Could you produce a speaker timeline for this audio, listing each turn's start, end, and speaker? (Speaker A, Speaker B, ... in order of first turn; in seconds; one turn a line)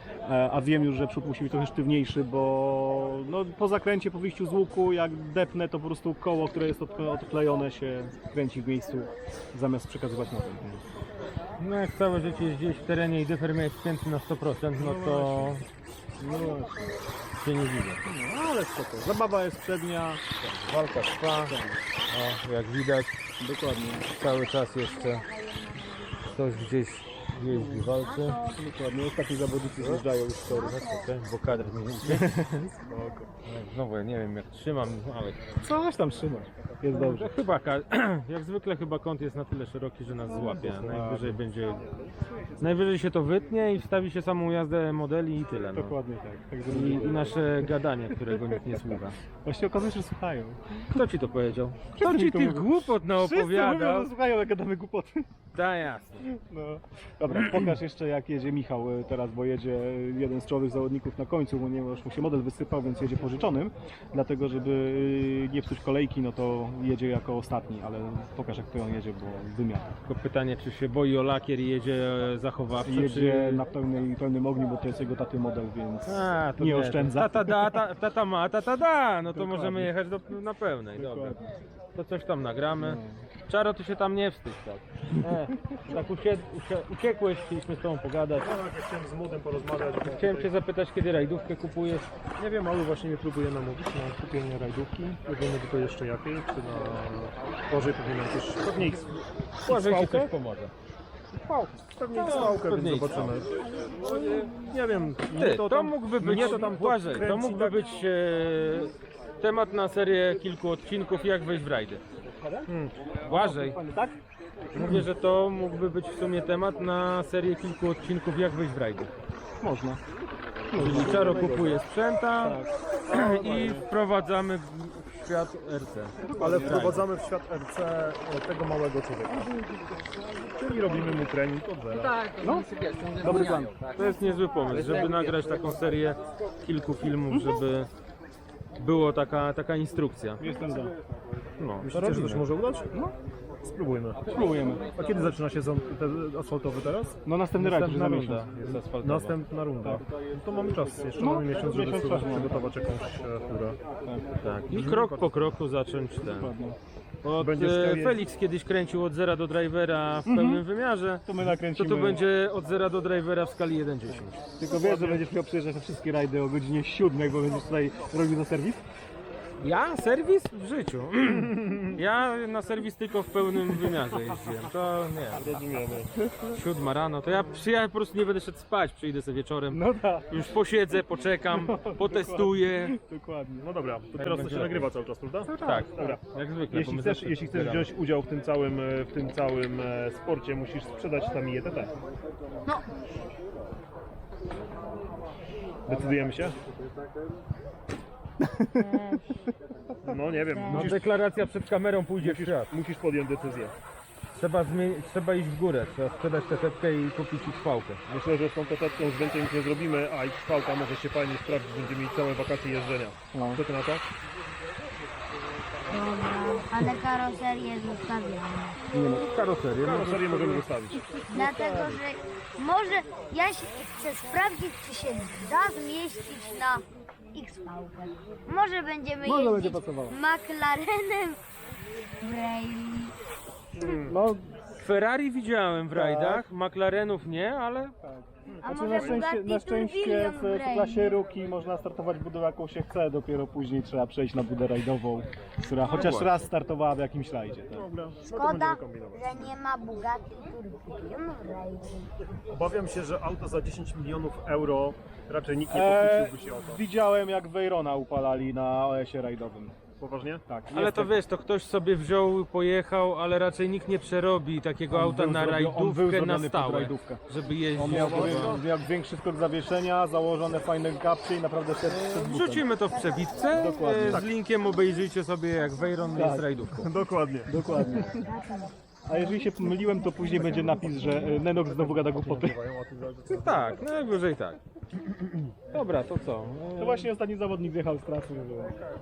Speaker A: 0.2-10.8
Speaker B: 11.6-15.6
Speaker A: 14.8-15.6
Speaker A: 16.2-16.9
Speaker B: 17.3-18.0
Speaker A: 18.0-20.2
Speaker B: 20.4-23.2
Speaker A: 21.4-21.8
Speaker A: 23.4-24.1
Speaker B: 24.1-25.2
Speaker B: 26.3-28.4
Speaker A: 28.5-30.8
Speaker B: 29.8-32.5
Speaker A: 32.0-32.9
Speaker C: 32.9-33.2
Speaker B: 33.4-35.5
Speaker A: 35.6-37.4
Speaker B: 36.9-41.8
Speaker A: 40.6-41.4
Speaker B: 42.6-46.0
Speaker A: 45.7-47.6
Speaker B: 46.7-49.2
Speaker A: 48.3-48.6
Speaker A: 49.4-50.9
Speaker B: 50.9-54.1
Speaker A: 51.9-55.3
Speaker B: 55.5-56.2
Speaker A: 56.2-69.9
Speaker B: 70.0-73.6
Speaker A: 72.8-77.8
Speaker B: 76.0-88.5
Speaker A: 79.3-79.9
Speaker A: 81.0-81.5
Speaker A: 82.8-83.3
Speaker C: 88.3-90.5
Speaker B: 90.0-92.1
Speaker C: 92.4-99.2
Speaker B: 99.6-100.7
Speaker A: 99.7-100.3
Speaker B: 101.4-103.4
Speaker C: 101.8-103.5
Speaker C: 104.0-107.9
Speaker B: 105.3-112.0
Speaker C: 112.7-112.9
Speaker B: 113.2-113.8
Speaker A: 113.3-114.2
Speaker B: 114.7-119.1
Speaker A: 119.6-120.0
Speaker A: 120.7-121.7
Speaker C: 120.7-121.7
Speaker B: 120.7-127.1
Speaker A: 122.4-123.7
Speaker A: 126.3-126.7
Speaker C: 126.3-129.6
Speaker C: 130.6-132.3
Speaker A: 132.4-133.8
Speaker B: 133.2-137.9
Speaker B: 138.8-140.4
Speaker A: 140.4-140.9
Speaker B: 141.6-142.4
Speaker C: 141.8-142.9
Speaker C: 143.6-144.2
Speaker A: 144.3-144.8
Speaker C: 144.9-147.2
Speaker A: 147.2-148.5
Speaker B: 147.6-149.4
Speaker C: 148.6-153.8
Speaker A: 151.2-152.7
Speaker B: 154.4-156.5
Speaker C: 154.7-155.4
Speaker A: 156.2-156.8
Speaker B: 157.2-164.4
Speaker C: 157.4-158.2
Speaker A: 160.2-160.6
Speaker A: 161.2-162.2
Speaker A: 164.6-168.8
Speaker C: 164.7-165.2
Speaker B: 169.6-175.6
Speaker C: 171.5-172.0
Speaker C: 175.3-176.1
Speaker B: 176.5-183.0
Speaker A: 179.7-180.4
Speaker A: 181.5-183.7
Speaker C: 183.6-191.9
Speaker B: 184.1-184.9
Speaker A: 185.5-186.2
Speaker B: 185.5-187.9
Speaker C: 195.9-196.6
Speaker A: 198.4-198.8
Speaker D: 198.8-199.2
Speaker C: 200.0-201.0
Speaker D: 200.4-200.9
Speaker B: 200.7-202.7
Speaker C: 202.2-203.7
Speaker B: 204.3-208.0
Speaker C: 208.1-214.0
Speaker A: 213.3-213.6
Speaker D: 215.9-218.8
Speaker A: 218.9-219.3
Speaker B: 219.1-220.7
Speaker C: 219.8-221.0
Speaker D: 221.3-231.4
Speaker A: 221.3-221.9
Speaker A: 229.2-230.2
Speaker D: 232.2-233.2
Speaker C: 233.7-234.1
Speaker A: 234.1-234.7
Speaker B: 234.8-237.9
Speaker A: 235.9-236.4
Speaker A: 238.1-247.9
Speaker C: 238.5-239.2
Speaker D: 238.6-241.2
Speaker B: 245.8-246.5
Speaker C: 247.7-249.5
Speaker D: 248.3-252.1
Speaker C: 252.5-256.8
Speaker A: 255.7-259.8
Speaker C: 260.0-260.4
Speaker A: 260.4-261.1
Speaker B: 260.7-268.6
Speaker A: 264.9-267.2
Speaker A: 267.7-272.7
Speaker C: 267.9-268.6
Speaker B: 271.8-276.9
Speaker A: 273.5-274.2
Speaker A: 276.1-276.6
Speaker C: 276.7-278.1
Speaker A: 277.5-278.2
Speaker D: 277.8-278.7
Speaker A: 279.1-282.6
Speaker C: 281.7-283.8
Speaker B: 283.3-284.6
Speaker B: 285.2-287.1
Speaker A: 286.8-288.7